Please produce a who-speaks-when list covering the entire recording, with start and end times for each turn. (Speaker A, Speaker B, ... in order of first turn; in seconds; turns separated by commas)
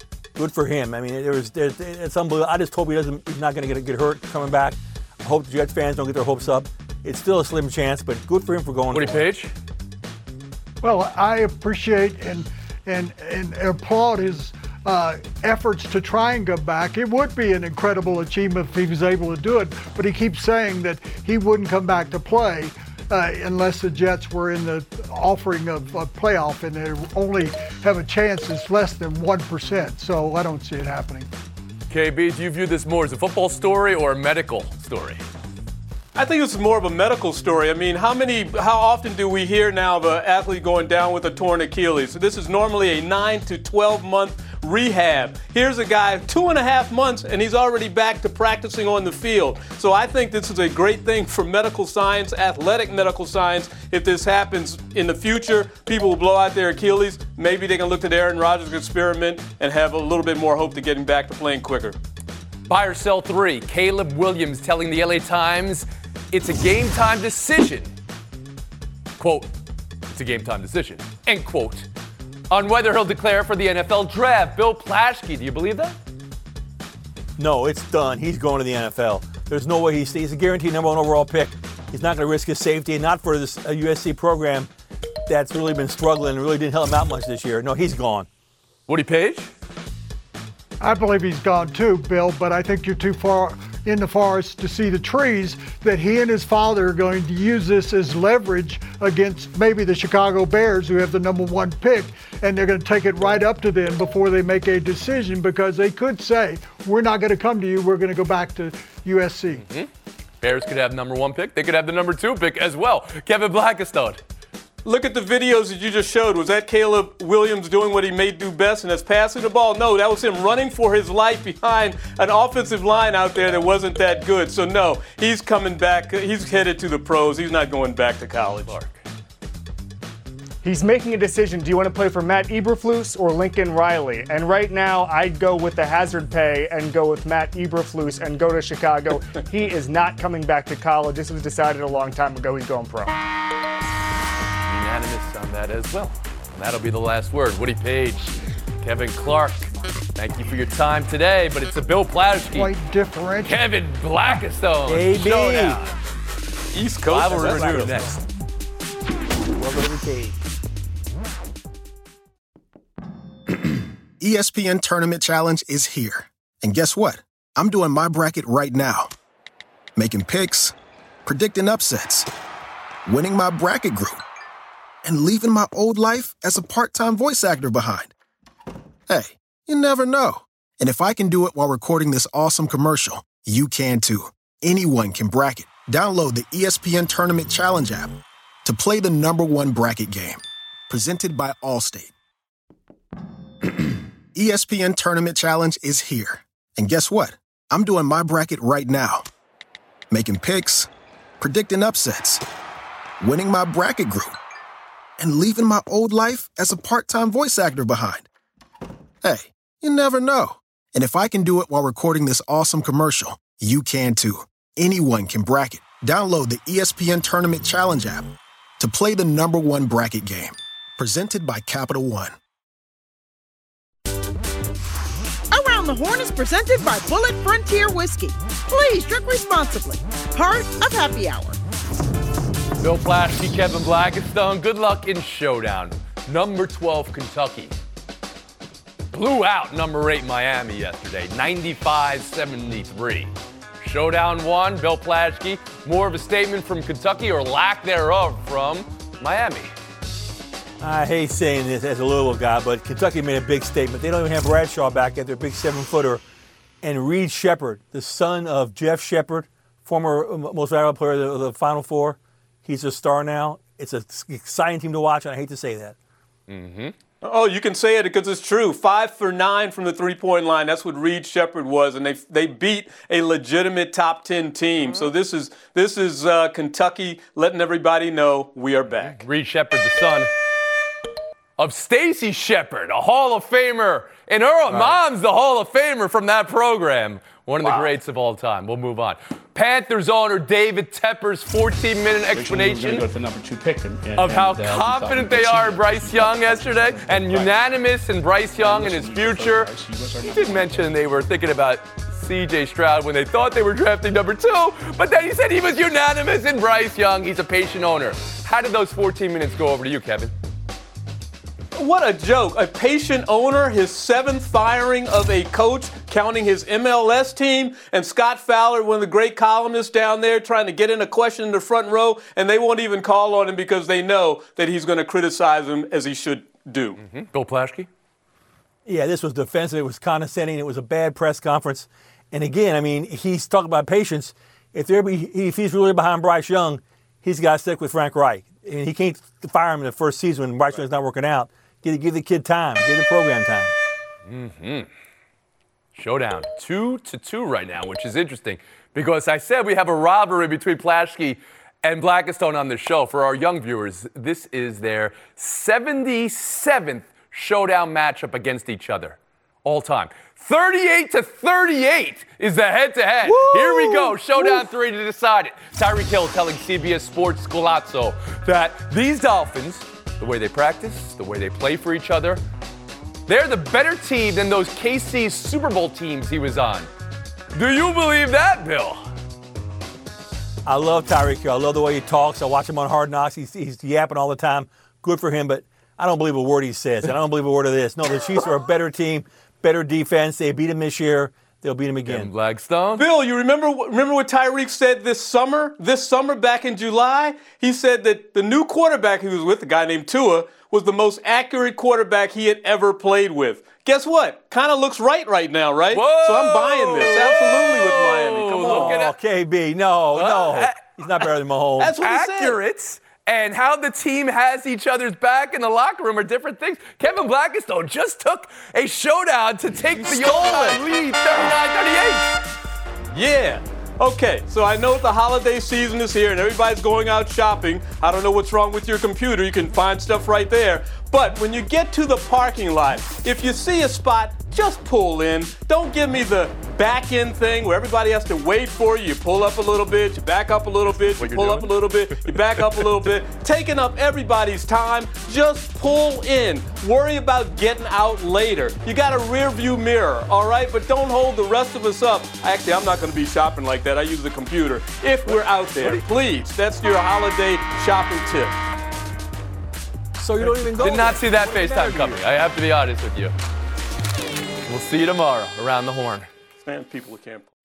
Speaker A: 0.4-9.2, Speaker B: 8.9-9.5, Speaker C: 10.8-31.3, Speaker B: 31.9-35.2, Speaker D: 36.1-62.0, Speaker B: 62.7-67.9, Speaker B: 69.2-69.5, Speaker B: 70.1-71.9, Speaker B: 72.5-76.0, Speaker A: 77.4-84.7, Speaker A: 85.3-88.3, Speaker B: 88.9-89.5, Speaker C: 90.8-109.6, Speaker B: 110.4-114.2, Speaker D: 114.8-128.8, Speaker B: 128.7-129.0, Speaker E: 130.6-143.1, Speaker B: 144.7-152.7, Speaker C: 152.5-153.6, Speaker B: 153.4-155.9, Speaker A: 154.9-155.8, Speaker D: 156.7-158.1, Speaker B: 157.1-158.2, Speaker A: 159.6-160.4, Speaker F: 164.2-169.1, Speaker F: 170.0-170.7, Speaker F: 171.2-172.3, Speaker F: 173.1-174.2, Speaker F: 175.0-178.1, Speaker F: 179.1-192.1, Speaker F: 194.3-199.3, Speaker F: 200.1-200.9, Speaker F: 201.4-202.4, Speaker F: 203.2-204.4, Speaker F: 205.2-208.3, Speaker F: 209.2-222.3, Speaker G: 225.5-231.6, Speaker B: 232.8-237.7, Speaker B: 239.1-249.7, Speaker A: 250.8-256.2, Speaker A: 256.8-266.0, Speaker B: 266.5-266.9, Speaker D: 267.2-279.3, Speaker B: 279.0-280.3, Speaker B: 281.6-293.1, Speaker H: 284.7-285.0, Speaker D: 287.6-287.9, Speaker H: 292.3-297.6, Speaker B: 294.2-299.7, Speaker H: 298.5-300.9, Speaker B: 300.2-310.3, Speaker D: 311.7-327.0, Speaker B: 327.0-327.9, Speaker A: 328.9-343.7, Speaker B: 344.3-344.9, Speaker B: 345.9-372.4, Speaker C: 363.4-363.9, Speaker B: 373.3-376.9, Speaker B: 377.5-379.1, Speaker A: 380.7-392.3, Speaker B: 392.1-393.1, Speaker D: 393.0-409.0, Speaker B: 405.9-409.1, Speaker A: 408.6-411.9, Speaker B: 410.1-411.3, Speaker B: 411.8-422.4, Speaker D: 411.8-412.6, Speaker A: 420.0-420.7, Speaker D: 423.1-458.6, Speaker B: 441.0-443.0, Speaker B: 455.3-456.0, Speaker A: 460.2-462.2, Speaker B: 460.5-463.3, Speaker B: 464.7-466.3, Speaker D: 466.6-467.5